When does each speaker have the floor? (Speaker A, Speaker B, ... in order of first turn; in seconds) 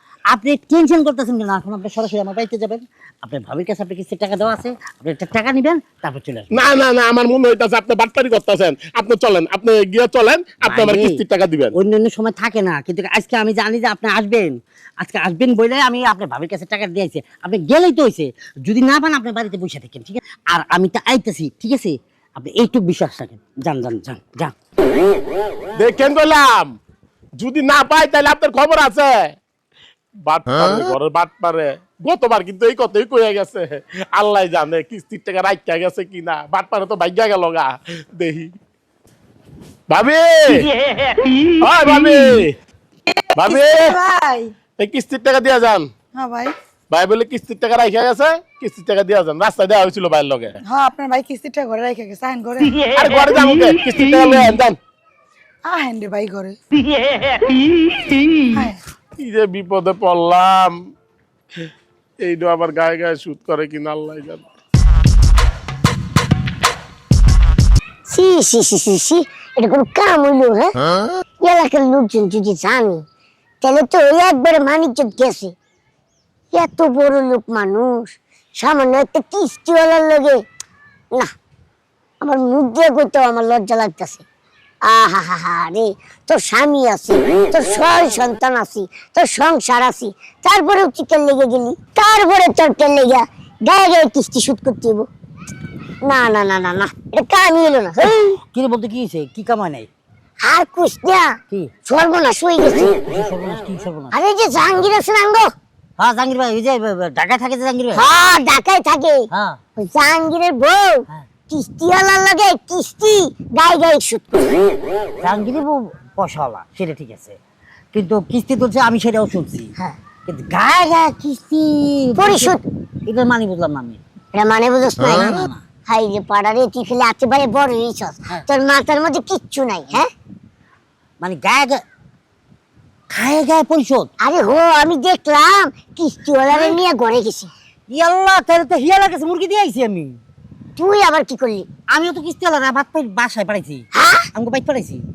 Speaker A: 0.3-6.5, 10.7-11.2, 11.7-24.5, 98.0-99.9, 103.0-104.1, 106.0-108.1, 109.3-109.6, 115.2-117.4, 117.9-119.7, 120.3-124.0, 125.1-125.6, 131.2-131.8, 133.1-134.1, 137.9-140.2, 141.9-145.0
Speaker B: 6.5-11.7, 25.7-26.7, 27.4-29.4, 30.2-38.5, 39.9-40.7, 41.6-42.5, 43.4-44.0, 44.8-45.9, 46.9-50.5, 52.9-54.8, 59.2-60.8, 62.2-64.4
Speaker C: 43.1-44.5, 46.1-46.5, 50.6-52.9, 55.6-56.6, 58.5-58.8
Speaker D: 68.1-70.7, 71.4-73.0, 73.6-75.5, 76.5-80.4, 82.2-84.2, 84.9-95.1, 96.0-98.2, 100.4-102.9, 104.1-105.5, 107.9-109.2, 109.8-114.7, 122.2-122.6, 124.3-130.1, 134.2-137.5, 140.8-141.7, 143.9-144.2